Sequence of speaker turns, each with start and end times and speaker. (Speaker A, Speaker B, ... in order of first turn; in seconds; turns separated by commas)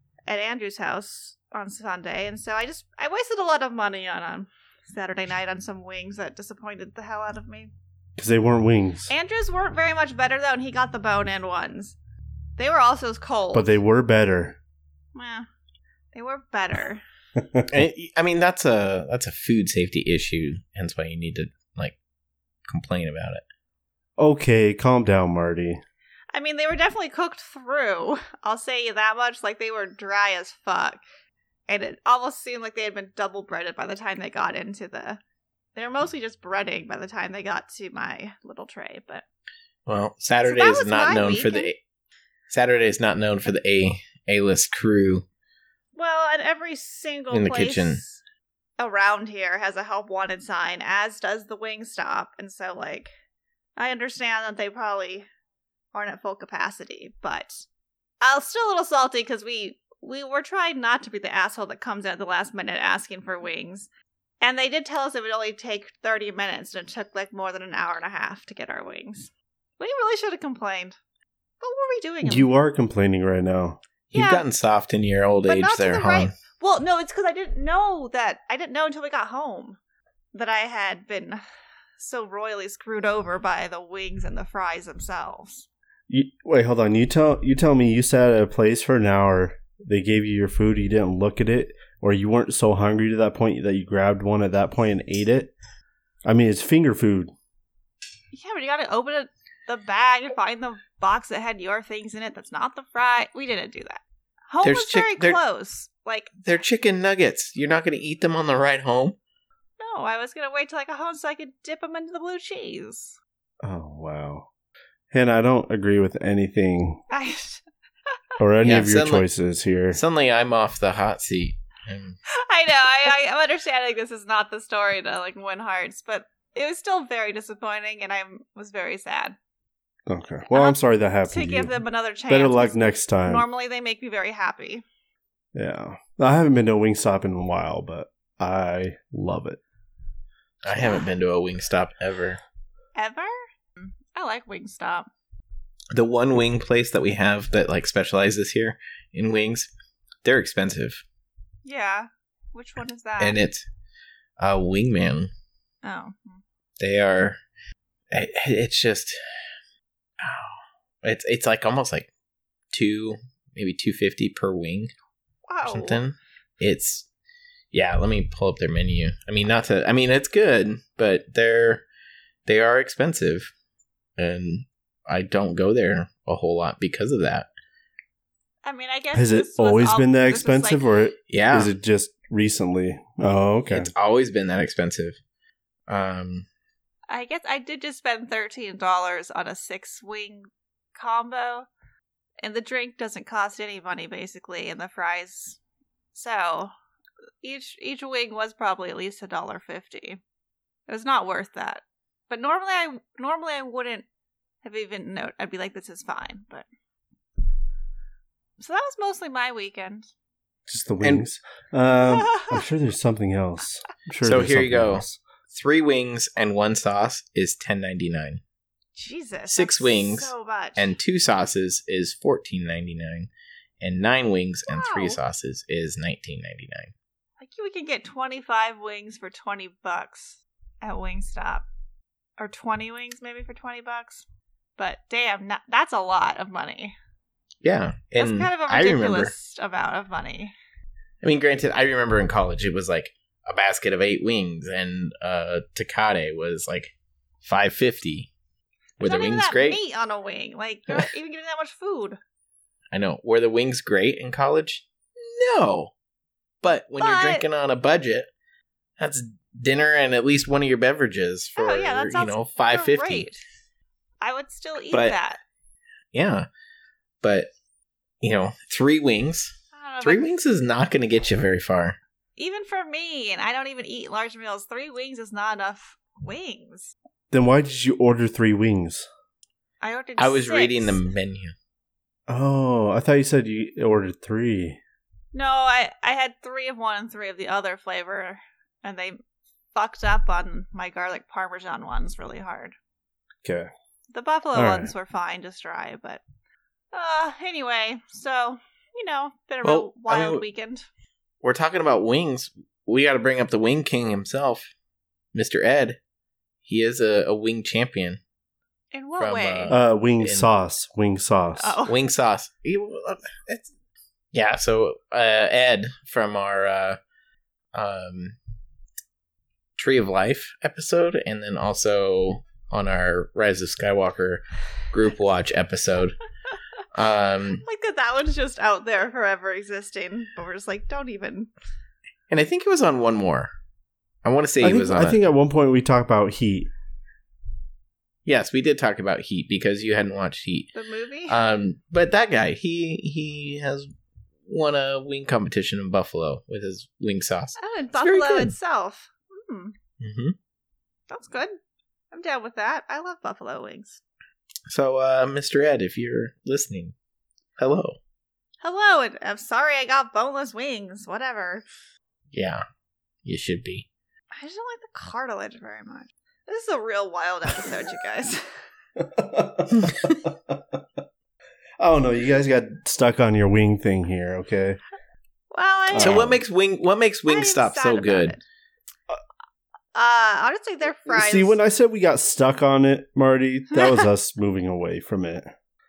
Speaker A: 0.3-7.7, Speaker B: 8.2-9.1, Speaker A: 9.1-12.0, Speaker A: 12.6-13.7, Speaker B: 13.5-14.6, Speaker A: 15.1-15.5, Speaker A: 16.1-17.0, Speaker B: 17.4-17.7, Speaker C: 17.7-22.0, Speaker C: 22.7-23.4, Speaker B: 24.2-25.8, Speaker A: 26.3-31.0, Speaker A: 31.7-35.2, Speaker A: 35.8-39.2, Speaker C: 39.9-41.8, Speaker A: 40.4-41.7, Speaker C: 42.5-45.2, Speaker A: 46.0-48.2, Speaker C: 47.3-48.0, Speaker A: 48.8-53.1, Speaker A: 53.8-55.3, Speaker A: 55.9-57.6, Speaker A: 58.2-63.9, Speaker A: 64.4-71.0, Speaker A: 71.6-72.5, Speaker B: 72.2-73.8, Speaker C: 74.1-76.3, Speaker A: 74.1-74.4, Speaker A: 75.5-79.8, Speaker A: 80.3-81.4, Speaker A: 82.0-85.7, Speaker B: 86.1-95.5, Speaker B: 96.2-97.3, Speaker A: 98.3-106.4, Speaker C: 104.6-105.4, Speaker C: 106.4-109.2, Speaker A: 109.8-113.2, Speaker B: 113.6-114.5, Speaker B: 115.1-117.0, Speaker A: 117.1-117.6, Speaker B: 118.4-120.0, Speaker C: 118.6-119.2, Speaker C: 119.9-122.2, Speaker A: 122.3-129.3, Speaker B: 130.1-131.8, Speaker A: 130.5-134.8, Speaker B: 132.3-133.4, Speaker B: 135.5-139.6, Speaker C: 140.6-142.4, Speaker A: 142.9-145.1, Speaker C: 145.9-149.7, Speaker C: 150.2-151.0, Speaker A: 151.6-153.4, Speaker C: 153.2-153.6, Speaker C: 154.4-155.3, Speaker A: 155.8-156.4, Speaker C: 156.8-157.4, Speaker C: 158.1-159.2, Speaker C: 160.2-162.1, Speaker C: 162.7-164.9, Speaker A: 165.5-166.0, Speaker C: 165.6-167.1, Speaker C: 167.7-171.8, Speaker C: 172.4-173.5, Speaker C: 174.2-177.5, Speaker A: 178.6-180.8, Speaker B: 179.1-183.9, Speaker C: 181.3-181.7, Speaker C: 183.7-185.2, Speaker C: 185.9-186.5, Speaker A: 187.1-191.7, Speaker A: 192.4-195.6, Speaker A: 196.1-196.7, Speaker A: 197.4-200.2, Speaker A: 200.9-204.1, Speaker A: 204.6-206.7, Speaker A: 208.6-210.1, Speaker B: 210.7-215.2, Speaker A: 212.0-212.6, Speaker C: 214.2-218.4, Speaker A: 218.9-220.9, Speaker C: 219.5-223.3, Speaker C: 223.8-226.9, Speaker A: 224.7-225.2, Speaker A: 227.4-231.7, Speaker A: 232.4-234.2, Speaker A: 234.8-236.9, Speaker C: 237.6-239.3, Speaker A: 238.2-240.5, Speaker C: 241.2-248.3, Speaker C: 249.0-249.8, Speaker A: 249.0-252.2, Speaker C: 252.9-255.9, Speaker C: 256.6-258.3, Speaker A: 257.0-257.4, Speaker C: 259.0-263.3, Speaker A: 261.6-263.4, Speaker A: 264.2-265.4, Speaker C: 264.9-265.2, Speaker C: 266.1-266.5, Speaker C: 267.2-267.5, Speaker C: 268.2-272.0, Speaker A: 269.7-270.3, Speaker A: 272.4-276.9, Speaker B: 277.3-279.1, Speaker A: 279.8-281.0, Speaker C: 280.2-281.5, Speaker B: 282.3-284.8, Speaker A: 285.3-289.2, Speaker A: 289.7-292.7, Speaker B: 293.4-293.7, Speaker A: 294.1-296.2, Speaker B: 294.5-294.9, Speaker A: 296.9-300.9, Speaker C: 299.6-300.4, Speaker C: 301.4-304.7, Speaker C: 305.3-306.0, Speaker C: 306.6-308.2, Speaker A: 308.9-309.7, Speaker C: 309.2-310.5, Speaker B: 309.7-311.8, Speaker A: 311.6-311.9, Speaker C: 311.9-313.7, Speaker C: 314.3-317.0, Speaker C: 317.7-318.4, Speaker C: 319.8-326.2, Speaker C: 326.9-327.6, Speaker A: 327.6-331.5, Speaker C: 332.3-333.5, Speaker C: 334.2-335.2, Speaker B: 334.6-336.7, Speaker C: 338.2-340.7, Speaker A: 340.7-341.4, Speaker C: 341.3-343.9, Speaker C: 344.5-348.5, Speaker A: 347.6-349.7, Speaker C: 350.0-350.3, Speaker A: 351.1-351.5, Speaker A: 352.1-354.0, Speaker C: 354.7-356.9, Speaker C: 357.6-358.0, Speaker A: 358.6-361.6, Speaker C: 362.3-362.6, Speaker C: 363.2-363.9, Speaker A: 364.4-368.5, Speaker B: 369.0-370.8, Speaker C: 369.8-370.0, Speaker B: 371.8-374.8, Speaker A: 375.5-376.3, Speaker B: 375.9-376.4, Speaker C: 376.0-378.4, Speaker A: 377.3-378.4, Speaker A: 379.9-381.6, Speaker B: 381.1-385.5, Speaker A: 383.7-384.0